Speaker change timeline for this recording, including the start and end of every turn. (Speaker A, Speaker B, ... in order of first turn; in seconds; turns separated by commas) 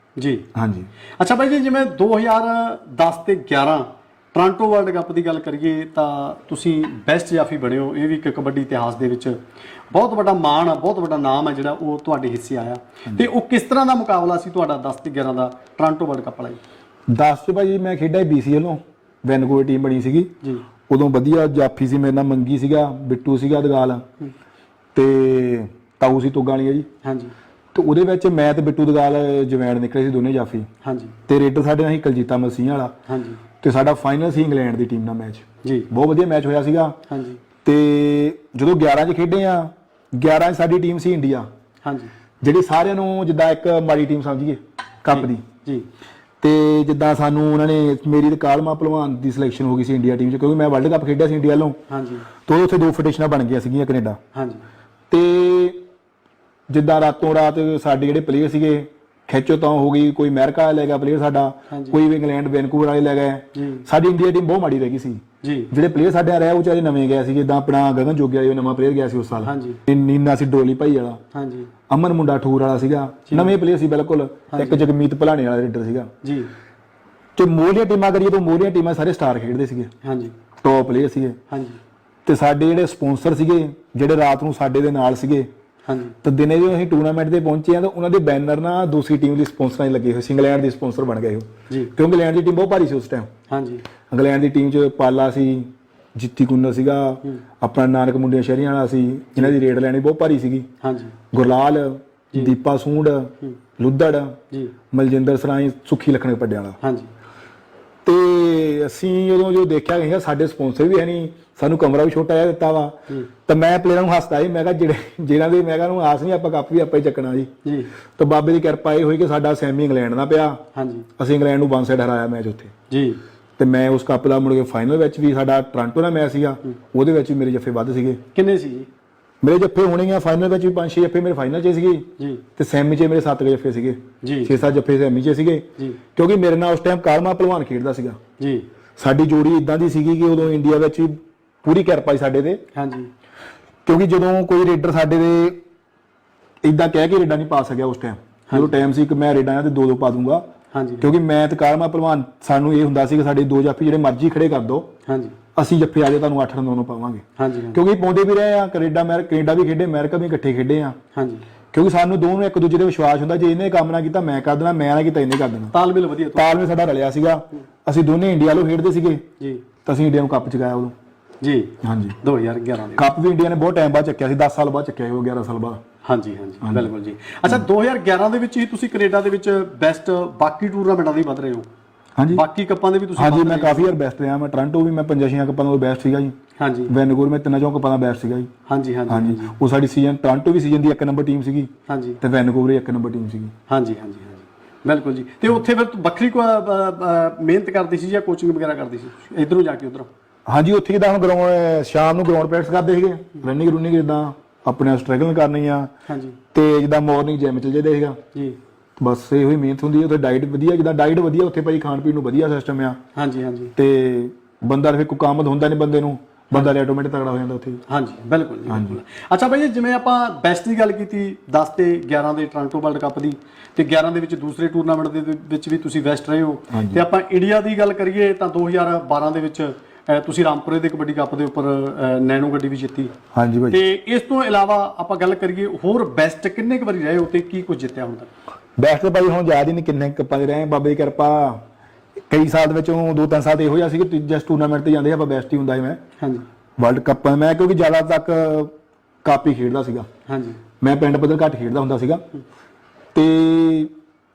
Speaker A: 0.2-0.5, Speaker B: 0.5-0.9, Speaker A: 1.2-9.4, Speaker A: 9.9-16.6, Speaker B: 17.1-20.3, Speaker B: 20.9-24.0, Speaker B: 24.9-26.9, Speaker A: 27.0-27.3, Speaker B: 27.7-30.7, Speaker A: 30.8-31.1, Speaker B: 31.3-32.9, Speaker A: 33.1-33.4, Speaker B: 33.6-37.0, Speaker A: 35.6-35.9, Speaker A: 37.1-37.4, Speaker B: 37.6-41.5, Speaker A: 41.8-42.1, Speaker B: 42.4-45.4, Speaker A: 45.1-45.9, Speaker B: 46.4-51.8, Speaker A: 51.9-52.3, Speaker B: 52.5-54.2, Speaker A: 54.3-54.6, Speaker B: 55.1-55.8, Speaker B: 56.7-71.2, Speaker A: 61.7-62.0, Speaker A: 63.5-63.8, Speaker A: 65.4-65.7, Speaker A: 69.4-69.8, Speaker A: 71.3-71.7, Speaker B: 71.9-76.1, Speaker A: 73.3-73.5, Speaker A: 74.5-74.8, Speaker A: 76.2-76.5, Speaker B: 77.3-79.9, Speaker A: 80.0-80.3, Speaker B: 80.6-81.4, Speaker A: 81.5-81.8, Speaker B: 82.2-85.5, Speaker A: 85.9-86.2, Speaker B: 86.2-93.3, Speaker A: 93.5-93.8, Speaker B: 94.1-100.7, Speaker A: 100.8-101.2, Speaker B: 101.3-104.4, Speaker B: 104.9-106.8, Speaker A: 106.8-107.1, Speaker B: 108.0-117.5, Speaker A: 117.6-117.9, Speaker B: 118.2-120.6, Speaker A: 120.7-121.1, Speaker B: 121.2-122.7, Speaker A: 122.9-123.2, Speaker B: 123.6-128.2, Speaker A: 128.3-128.9, Speaker B: 129.4-138.2, Speaker A: 132.2-132.4, Speaker A: 134.2-134.6, Speaker A: 138.4-138.7, Speaker B: 139.0-142.6, Speaker A: 142.7-143.1, Speaker B: 143.8-145.6, Speaker B: 146.6-150.4, Speaker A: 150.7-151.1, Speaker B: 151.0-154.9, Speaker A: 155.1-155.3, Speaker B: 155.6-161.0, Speaker A: 157.4-157.8, Speaker A: 161.1-161.4, Speaker B: 161.7-165.7, Speaker A: 165.7-166.6, Speaker B: 166.3-169.2, Speaker A: 169.4-169.6, Speaker B: 169.8-170.9, Speaker A: 171.4-173.1, Speaker B: 171.8-172.2, Speaker B: 172.9-175.8, Speaker A: 176.0-181.7, Speaker B: 182.2-182.4, Speaker A: 182.3-183.9, Speaker B: 183.2-186.3, Speaker A: 186.6-186.9, Speaker B: 186.9-188.5, Speaker A: 188.7-189.5, Speaker B: 189.1-191.7, Speaker A: 191.9-192.2, Speaker B: 192.2-193.5, Speaker A: 193.7-200.1, Speaker B: 200.5-205.9, Speaker A: 206.1-206.4, Speaker B: 206.5-208.2, Speaker B: 209.0-213.0, Speaker A: 213.1-213.7, Speaker B: 213.8-217.8, Speaker A: 217.9-233.1, Speaker B: 218.7-219.0, Speaker B: 226.7-227.0, Speaker B: 233.3-233.8, Speaker A: 233.7-238.3, Speaker B: 238.8-241.6, Speaker B: 242.3-246.0, Speaker A: 246.2-246.4, Speaker B: 246.8-248.7, Speaker B: 249.2-250.1, Speaker A: 250.3-250.6, Speaker B: 250.8-252.2, Speaker B: 253.1-253.9